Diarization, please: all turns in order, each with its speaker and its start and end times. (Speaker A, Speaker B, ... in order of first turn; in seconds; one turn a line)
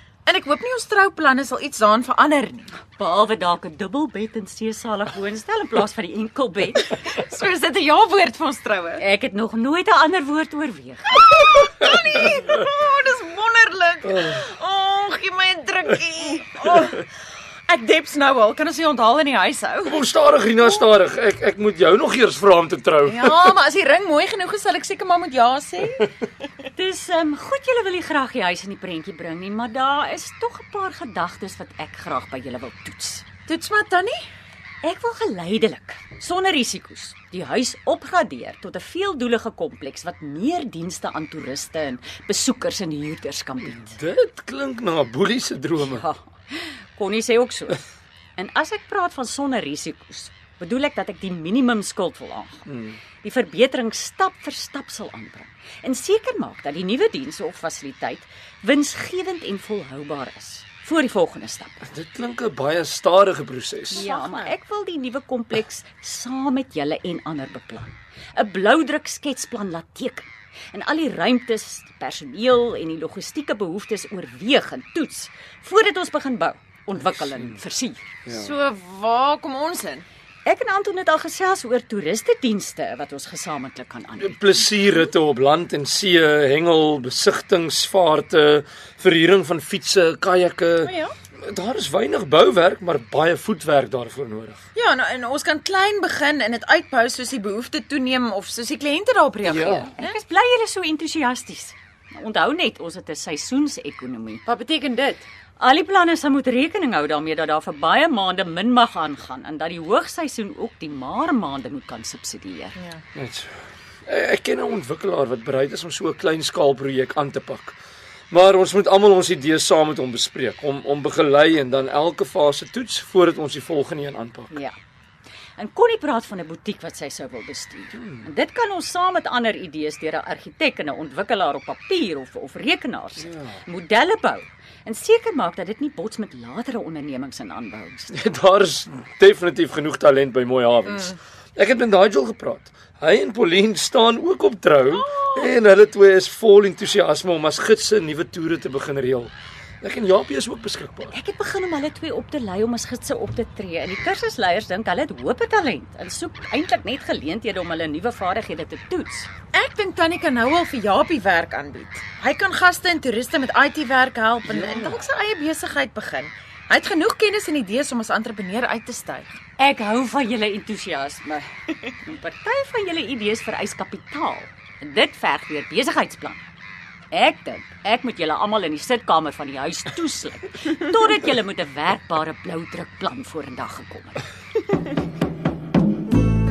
Speaker A: 0.2-2.7
Speaker B: 2.9-6.9
Speaker A: 6.9-9.0
Speaker B: 9.0-11.2
Speaker A: 11.2-17.1
Speaker C: 14.1-14.4
Speaker A: 17.7-20.0
Speaker C: 19.9-23.5
Speaker A: 23.0-26.1
Speaker B: 26.7-33.2
Speaker A: 33.5-34.2
Speaker B: 34.8-44.0
Speaker C: 43.8-46.0
Speaker B: 45.8-47.8
Speaker B: 48.4-52.6
Speaker C: 52.7-53.0
Speaker B: 53.2-61.8
Speaker C: 61.8-64.0
Speaker A: 63.9-64.5
Speaker B: 63.9-78.0
Speaker C: 78.2-78.5
Speaker A: 78.3-80.0
Speaker B: 80.4-84.4
Speaker C: 84.2-94.6
Speaker A: 90.8-91.1
Speaker A: 94.7-100.1
Speaker C: 99.4-99.9
Speaker B: 99.7-104.4
Speaker A: 104.5-105.2
Speaker B: 105.6-112.7
Speaker C: 113.1-113.5
Speaker C: 114.1-117.8
Speaker C: 118.3-124.5
Speaker B: 124.5-124.8
Speaker B: 125.6-138.2
Speaker C: 128.0-128.2
Speaker C: 133.2-133.6
Speaker C: 138.1-151.1
Speaker B: 151.1-159.3
Speaker A: 159.5-169.4
Speaker B: 169.6-176.4
Speaker B: 177.1-184.2